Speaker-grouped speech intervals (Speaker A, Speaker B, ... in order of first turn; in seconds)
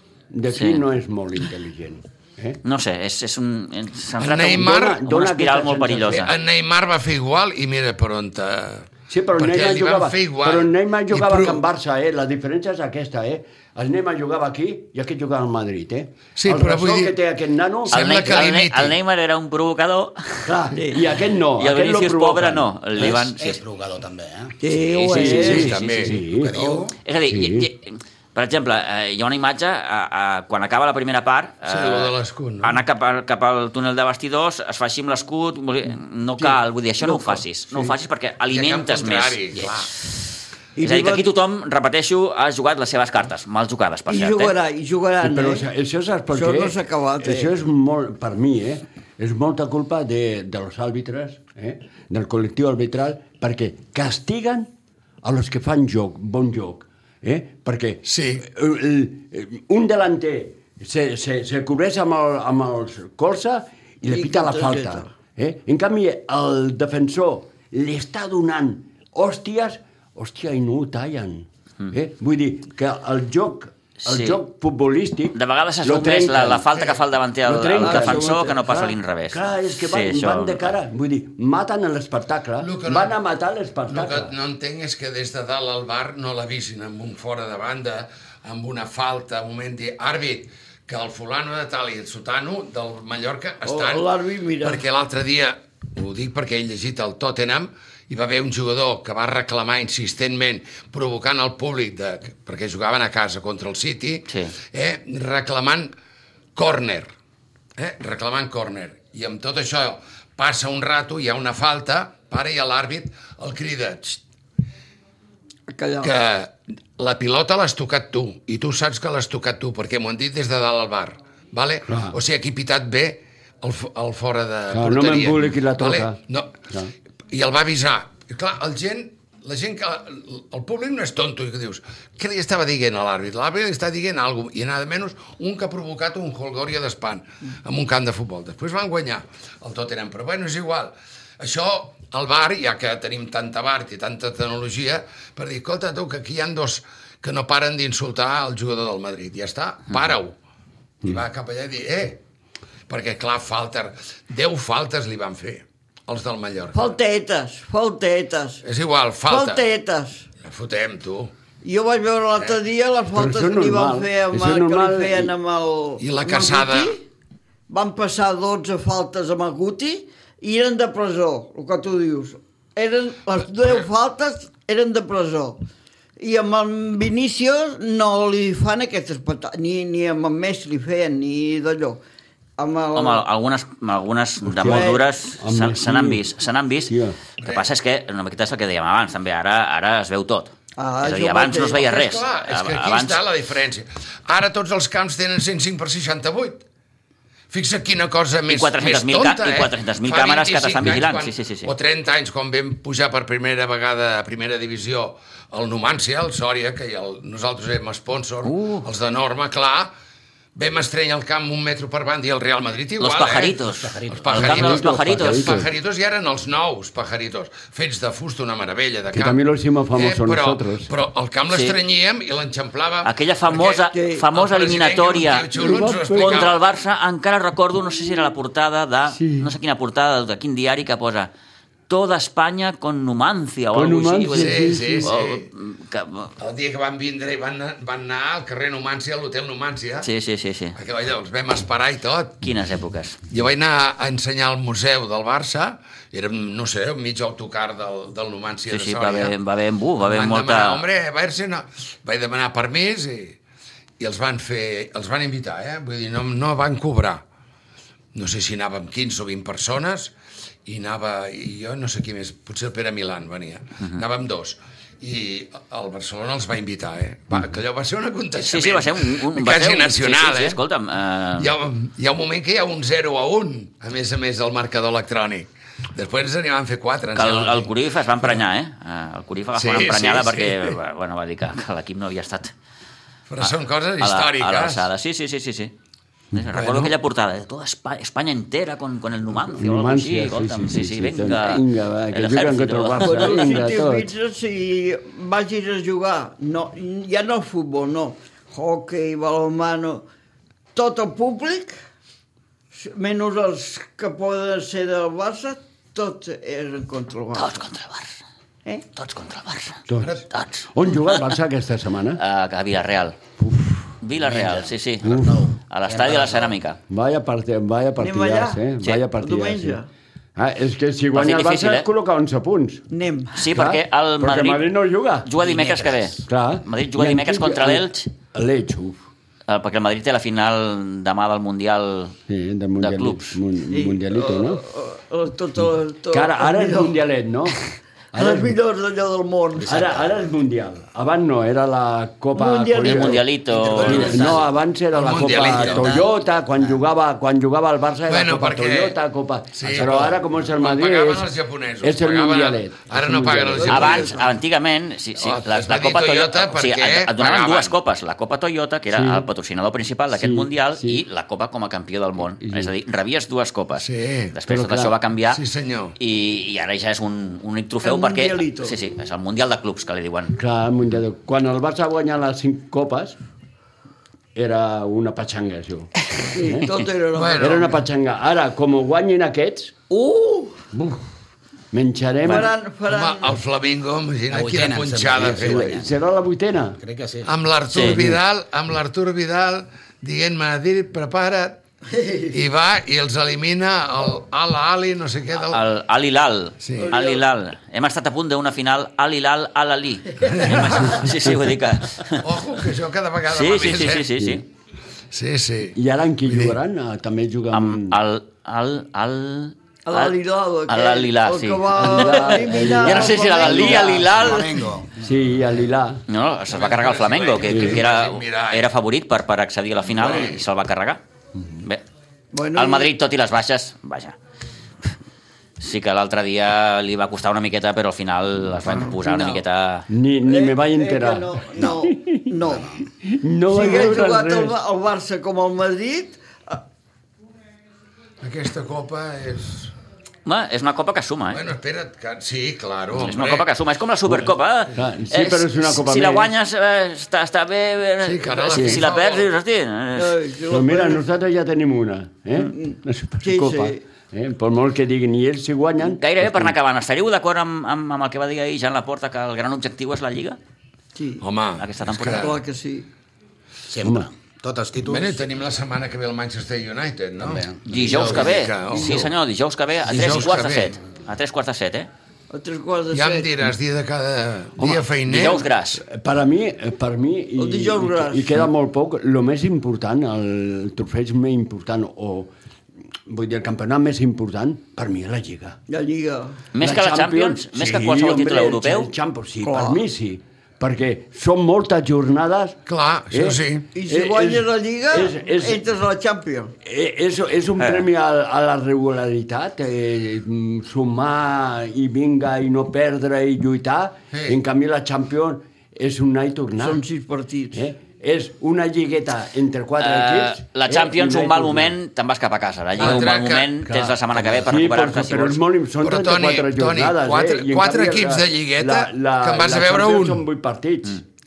Speaker A: 0.3-2.6, 4.5-6.3, 9.1-18.4, 20.4-23.0, 25.1-26.5, 27.3-27.7, 45.2-54.7, 55.2-76.9, 77.4-84.3, 121.9-122.2, 124.7-126.2, 163.1-165.3, 184.4-186.2, 186.9-187.2, 214.3-215.7, 219.1-220.9, 225.5-226.4, 229.1-229.5, 233.7-235.1, 289.4-294.1, 309.9-312.2, 313.4-313.9, 315.0-315.5, 316.9-319.8, 320.4-322.9, 323.5-325.3, 326.2-329.0, 332.3-334.6, 336.1-337.6, 338.1-338.6, 339.7-351.3, 351.8-354.1, 358.9-359.3, 360.1-361.0, 362.4-362.7, 364.5-365.0, 370.3-373.2, 374.3-376.7, 377.4-379.8, 380.7-381.0, 381.7-382.5, 385.2-386.8, 387.8-388.2, 404.2-404.4, 405.8-408.0, 411.7-414.2, 415.0-416.0, 417.5-417.8, 429.9-432.4, 433.0-434.6, 444.7-446.3, 450.5-456.6, 463.8-464.1, 474.6-474.8, 475.8-482.3, 483.1-485.6, 486.6-492.6, 493.1-495.6, 496.6-506.8, 507.5-511.8, 512.8-513.1, 513.6-521.0
Speaker B: 0.5-0.8, 2.6-6.3, 17.9-20.5, 21.6-23.6, 24.9-26.1, 27.0-39.4, 40.8-44.5, 74.0-74.4, 75.3-80.7, 104.3-104.5, 182.9-193.2, 198.5-201.7, 208.4-208.9, 213.0-215.6, 221.5-221.8, 223.0-225.5, 226.1-231.3, 231.9-236.3, 240.0-240.8, 242.4-243.2, 248.7-250.8, 268.4-271.5, 277.1-282.5, 283.4-285.7, 286.3-293.6, 307.3-308.2, 308.9-311.4, 312.2-313.2, 314.0-316.8, 321.1-321.9, 323.3-324.7, 325.2-328.1, 329.5-332.2, 332.8-333.4, 342.8-344.4, 353.7-365.4, 366.0-370.4, 387.7-388.0, 395.4-402.2, 403.3-404.4, 407.5-414.5, 416.1-421.0, 422.5-424.2, 425.6-429.9, 440.2-441.4, 442.9-450.2, 456.0-460.4, 461.6-462.4, 467.7-471.9, 475.1-475.8, 486.5-488.9, 509.8-515.4
Speaker C: 4.2-5.0, 6.1-11.6, 16.4-17.1, 17.9-18.9, 25.1-26.2, 31.7-32.8, 38.5-39.9, 58.0-58.4, 82.6-83.1, 83.9-94.1, 94.6-105.9, 106.5-107.1, 107.8-114.2, 116.0-126.6, 127.3-150.4, 151.0-152.2, 152.9-156.9, 158.6-159.6, 160.4-161.3, 166.0-167.0, 187.4-187.7, 191.8-196.6, 197.5-209.9, 210.5-219.4, 219.9-226.6, 234.3-235.5, 236.4-240.1, 240.8-242.4, 243.3-249.3, 250.0-253.4, 254.0-257.2, 258.1-260.1, 260.7-270.6, 271.4-278.4, 279.5-280.8, 283.3-284.9, 286.5-286.9, 310.0-310.2, 344.9-345.9, 348.1-349.0, 349.5-354.2, 355.2-357.8, 363.8-364.3, 365.3-366.0, 377.1-377.8, 382.9-385.8, 387.2-391.6, 392.3-395.6, 396.6-396.9, 400.2-401.0, 402.2-404.1, 405.1-406.6, 416.5-418.7, 419.9-420.4, 438.2-439.7, 441.3-443.5, 448.0-449.3, 461.2-462.3, 464.8-469.1, 469.8-470.8, 472.9-475.4, 492.7-493.7, 504.1-504.4, 512.8-513.5, 515.8-520.2
Speaker D: 20.7-21.0, 24.6-25.8, 26.5-26.9, 37.0-37.9, 40.8-41.3, 44.1-45.7, 46.3-47.5, 64.1-65.1, 77.8-78.4, 93.7-94.8, 115.7-116.1, 156.7-158.6, 159.3-160.2, 161.6-167.0, 167.7-175.6, 176.2-182.0, 182.6-183.2, 184.6-185.0, 190.8-191.9, 223.9-224.2, 293.0-300.0, 300.8-301.8, 302.8-307.6, 318.0-318.6, 319.2-319.9, 322.9-323.5, 333.7-337.0, 338.1-340.1, 342.3-344.3, 353.6-354.3, 367.8-368.8, 376.3-377.8, 379.9-380.6, 382.2-383.4, 391.9-392.3, 396.8-397.2, 409.9-414.2, 422.3-422.9, 429.1-429.4, 430.2-432.7, 433.5-436.6, 450.0-451.0, 452.5-453.8, 460.9-461.2, 462.2-462.9, 468.8-469.0, 472.3-473.3, 477.4-478.4, 485.7-486.4, 489.4-489.8, 493.8-496.5, 506.6-507.7
Speaker E: 23.0-24.6, 26.3-26.9, 213.6-214.6, 314.2-316.6, 325.4-326.2, 339.6-339.9, 343.6-344.5, 345.1-346.8, 384.3-385.9, 386.8-387.3, 413.8-415.4, 432.5-432.9, 463.7-465.2, 467.2-468.4